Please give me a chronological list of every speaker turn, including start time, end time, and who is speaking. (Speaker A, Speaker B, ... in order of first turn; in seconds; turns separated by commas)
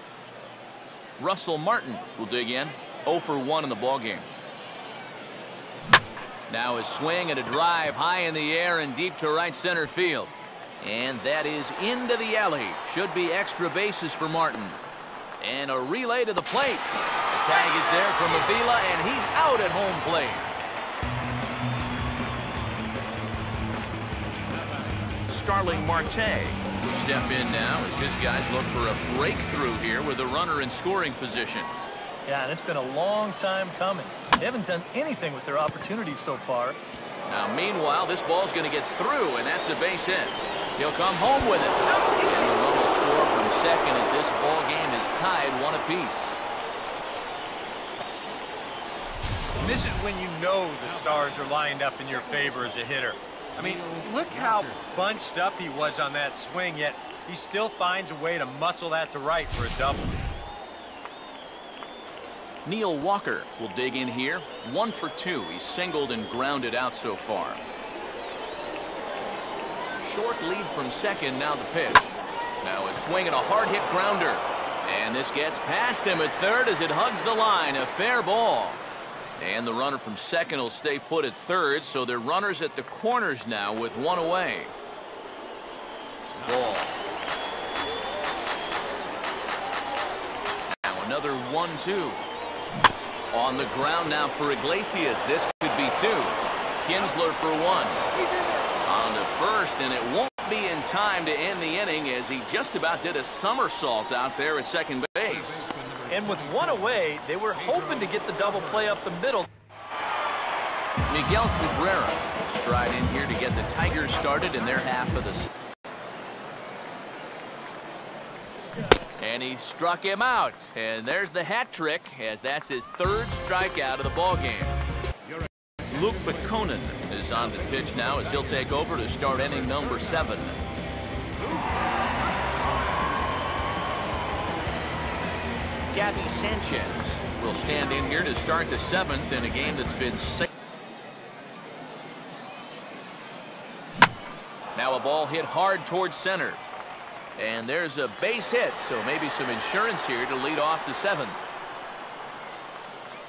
Speaker A: 1.2-4.3, Speaker A: 6.5-14.8, Speaker A: 15.4-20.5, Speaker A: 25.3-31.7, Speaker B: 32.3-36.8, Speaker A: 37.3-46.4, Speaker C: 49.6-60.2, Speaker A: 62.6-67.6, Speaker A: 70.0-78.8, Speaker A: 79.4-84.7, Speaker A: 86.3-87.0, Speaker A: 90.8-92.3, Speaker A: 93.3-98.1, Speaker A: 98.8-105.7, Speaker B: 106.1-109.5, Speaker A: 111.1-115.5, Speaker A: 119.2-124.8, Speaker A: 125.9-130.6, Speaker A: 135.9-140.5, Speaker A: 144.8-146.6, Speaker A: 147.4-151.5